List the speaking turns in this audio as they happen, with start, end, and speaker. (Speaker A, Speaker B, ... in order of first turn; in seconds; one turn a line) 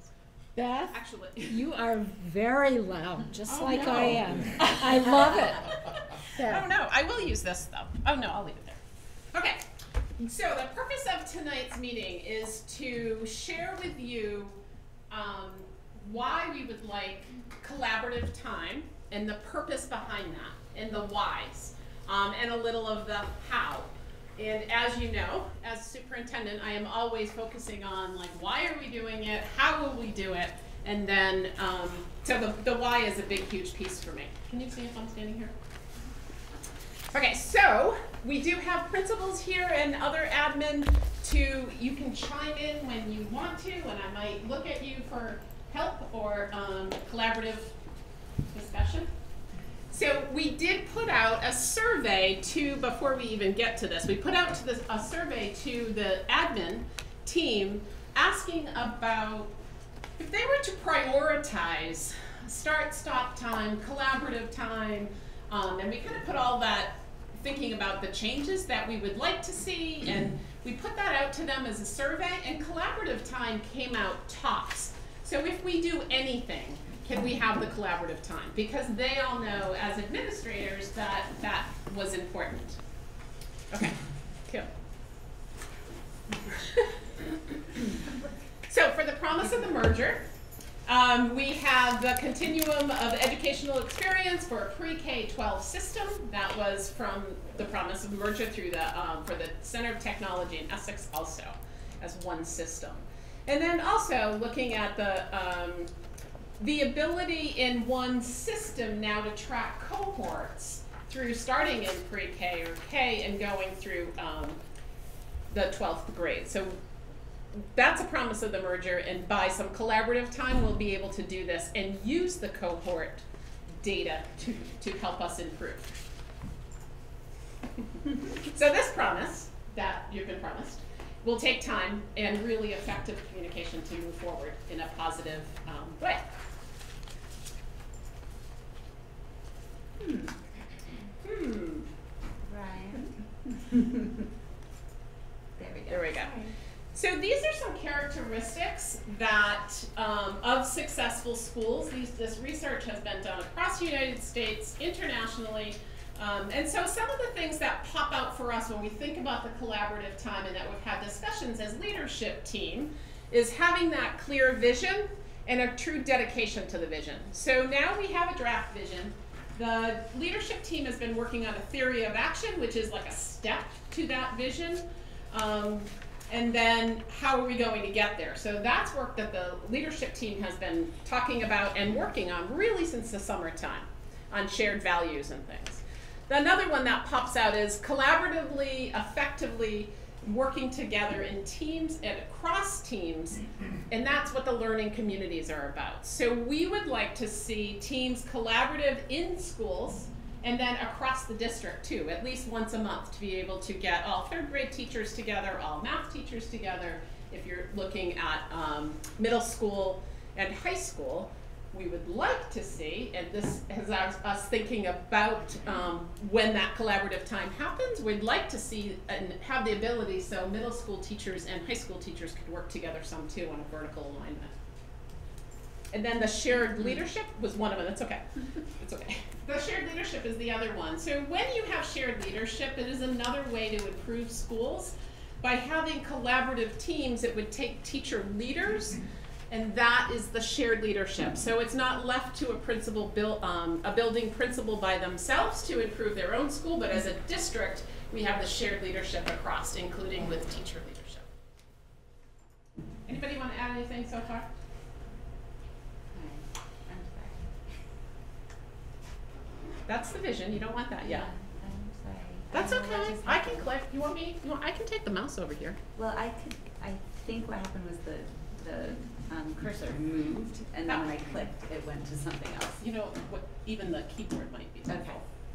Speaker A: 0.6-5.7
Speaker B: 0.9-1.6
Speaker B: 3.5-8.8
Speaker A: 6.2-6.7
Speaker B: 9.3-9.6
Speaker B: 10.2-35.5
Speaker B: 37.1-47.7
Speaker B: 48.5-49.1
Speaker B: 49.9-59.5
Speaker B: 60.2-82.8
Speaker B: 83.7-84.0
Speaker B: 86.6-86.9
Speaker B: 88.7-90.2
Speaker B: 90.8-105.9
Speaker B: 106.6-114.6
Speaker B: 115.5-116.8
Speaker B: 117.5-123.2
Speaker B: 123.8-125.9
Speaker B: 128.3-136.3
Speaker C: 140.0-140.3
Speaker B: 141.2-141.9
Speaker C: 142.4-144.1
Speaker C: 145.6-146.5
Speaker B: 145.9-146.3
Speaker B: 146.9-224.5
Speaker B: 225.9-228.2
Speaker B: 228.8-251.2
Speaker B: 253.1-254.5
Speaker C: 256.1-257.5
Speaker B: 259.9-261.3
Speaker C: 261.0-263.7
Speaker B: 262.5-265.8
Speaker C: 265.9-272.8
Speaker B: 270.9-271.1
Speaker B: 272.8-275.2
Speaker C: 274.9-275.2